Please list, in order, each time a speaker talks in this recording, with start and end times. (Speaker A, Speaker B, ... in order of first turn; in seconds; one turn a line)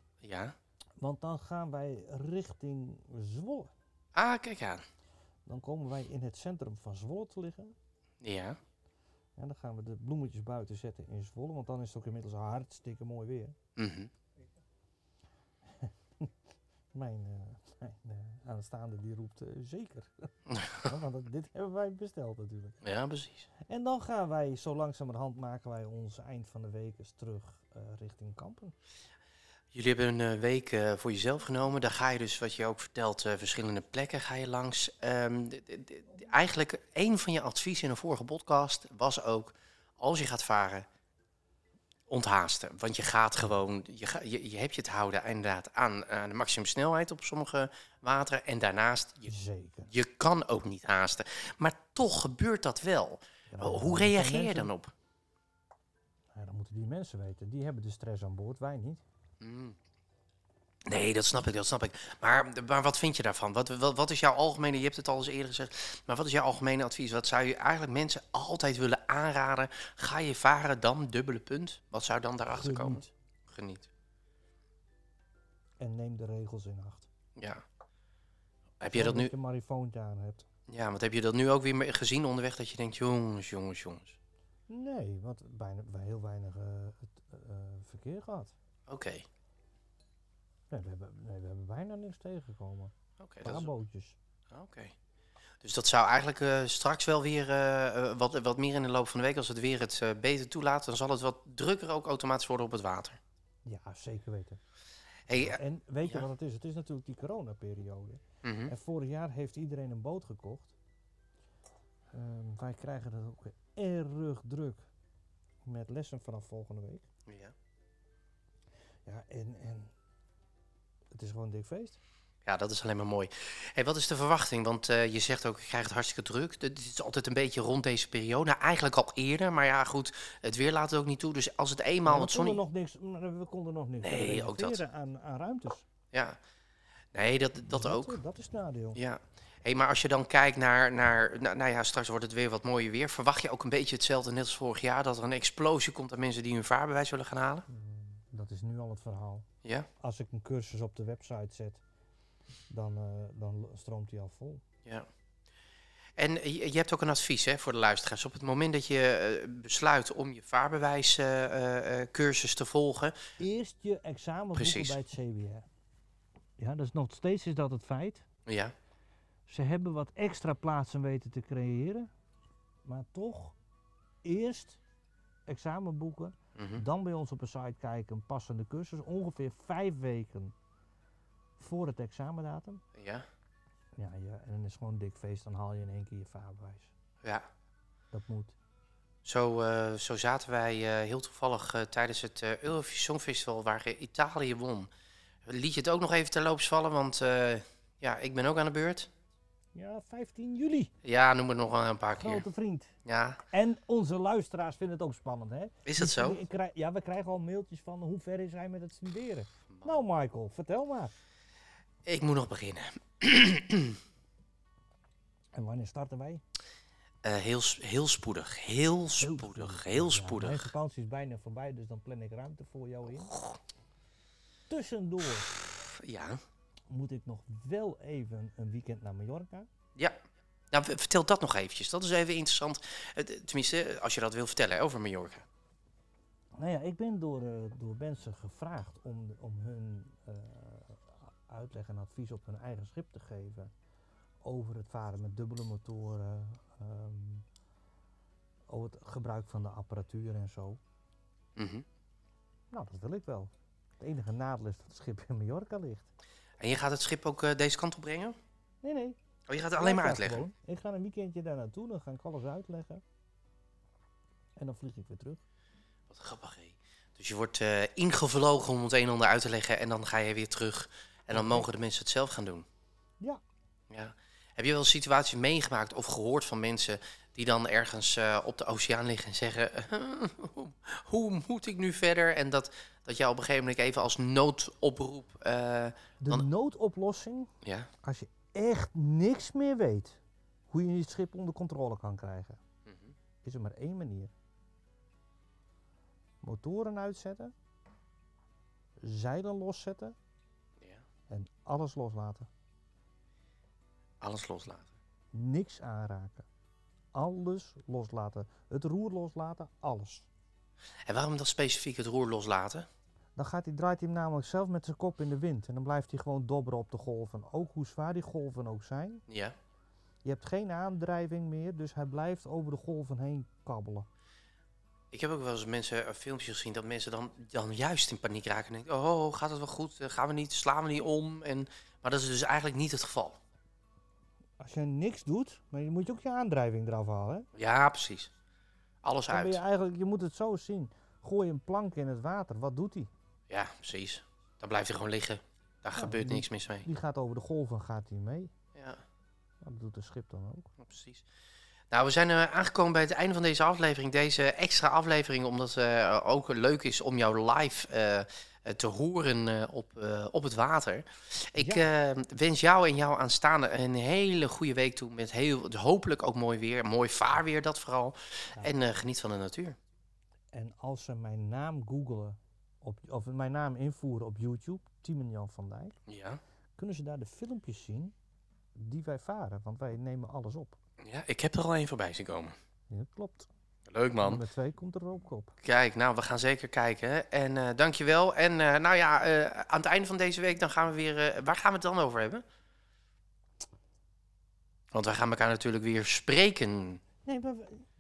Speaker A: 0.2-0.5
Speaker B: 1.0-3.7
Speaker A: 4.1-4.8
Speaker B: 5.5-7.7
Speaker A: 8.2-8.6
Speaker B: 9.4-13.5
Speaker A: 13.8-14.1
Speaker B: 15.8-16.3
Speaker B: 16.9-22.8
Speaker A: 20.5-20.9
Speaker A: 22.8-23.5
Speaker B: 23.7-28.7
Speaker A: 29.7-40.9
Speaker A: 42.1-49.3
Speaker B: 49.3-49.9
Speaker A: 49.9-54.9
Speaker B: 53.5-54.7
Speaker B: 56.3-59.0
Speaker A: 59.4-59.8
Speaker A: 60.9-73.9
Speaker B: 72.5-73.1
Speaker B: 75.8-77.1
Speaker A: 77.4-77.6
Speaker A: 78.8-79.3
Speaker B: 78.9-80.5
Speaker A: 80.7-84.2
Speaker B: 84.7-88.5
Speaker A: 88.9-89.3
Speaker B: 90.7-94.2
Speaker A: 93.2-93.7
Speaker A: 94.5-94.9
Speaker A: 95.6-103.2
Speaker B: 103.6-104.6
Speaker A: 105.3-106.2
Speaker B: 105.3-110.7
Speaker A: 108.4-108.7
Speaker B: 112.1-114.9
Speaker B: 115.6-117.0
Speaker A: 117.3-117.5
Speaker B: 119.0-119.9
Speaker B: 121.1-122.0
Speaker A: 122.4-132.6
Speaker B: 132.0-135.8
Speaker A: 134.0-134.8
Speaker A: 136.1-136.4
Speaker A: 137.1-138.2
Speaker B: 137.7-139.0
Speaker A: 138.9-147.7
Speaker B: 147.7-149.4
Speaker A: 149.6-149.9
Speaker B: 150.0-151.8
Speaker B: 152.7-154.6
Speaker A: 156.2-163.1
Speaker B: 163.4-165.6
Speaker A: 164.6-165.0
Speaker B: 166.6-168.2
Speaker A: 168.5-168.7
Speaker B: 169.5-172.1
Speaker B: 172.8-173.6
Speaker B: 174.2-174.8
Speaker B: 175.5-180.6
Speaker A: 176.6-176.8
Speaker B: 181.6-182.8
Speaker A: 182.9-183.2
Speaker B: 183.9-186.9
Speaker B: 188.1-188.6
Speaker A: 189.2-194.9
Speaker A: 195.4-199.1
Speaker B: 199.7-200.9
Speaker A: 201.0-202.4
Speaker B: 202.2-202.9
Speaker A: 203.1-203.4
Speaker B: 203.5-211.1
Speaker A: 205.8-206.4
Speaker A: 209.7-210.0
Speaker A: 212.0-214.0
Speaker B: 215.5-216.4
Speaker A: 217.2-220.7
Speaker B: 219.2-223.3
Speaker A: 223.1-223.6
Speaker B: 224.7-225.6
Speaker A: 225.8-226.4
Speaker B: 226.9-229.7
Speaker A: 230.7-235.4
Speaker B: 236.6-243.7
Speaker B: 244.4-247.4
Speaker B: 248.7-250.8
Speaker A: 251.6-251.8
Speaker B: 252.7-256.1
Speaker A: 256.6-258.4
Speaker B: 258.8-259.2
Speaker A: 259.5-260.5
Speaker B: 259.8-263.0
Speaker B: 264.6-265.4
Speaker A: 266.1-272.6
Speaker B: 271.3-271.7
Speaker A: 273.9-286.5
Speaker B: 286.2-287.5
Speaker A: 287.6-287.9
Speaker B: 288.0-292.6
Speaker A: 292.9-293.1
Speaker B: 293.4-294.3
Speaker B: 296.4-297.5
Speaker B: 299.0-300.1
Speaker B: 301.3-302.5
Speaker A: 304.2-304.9
Speaker B: 305.3-306.5
Speaker B: 307.1-310.3
Speaker A: 311.1-312.9
Speaker B: 313.4-319.2
Speaker A: 319.3-319.6
Speaker B: 320.2-324.1
Speaker A: 325.1-333.4
Speaker B: 334.6-337.5
Speaker A: 337.6-338.3
Speaker A: 339.0-339.6
Speaker B: 339.3-343.1
Speaker A: 343.5-346.9
Speaker B: 345.9-348.5
Speaker A: 348.8-349.0
Speaker B: 349.6-350.7
Speaker A: 350.8-351.2
Speaker A: 351.9-369.8
Speaker B: 361.6-361.9
Speaker B: 370.5-375.9
Speaker A: 376.1-376.4
Speaker B: 376.8-378.1
Speaker B: 378.8-380.8
Speaker A: 381.0-382.5
Speaker B: 382.9-383.5
Speaker A: 383.9-384.4
Speaker B: 384.2-385.6
Speaker A: 385.6-392.4
Speaker A: 394.9-397.0
Speaker B: 397.2-397.9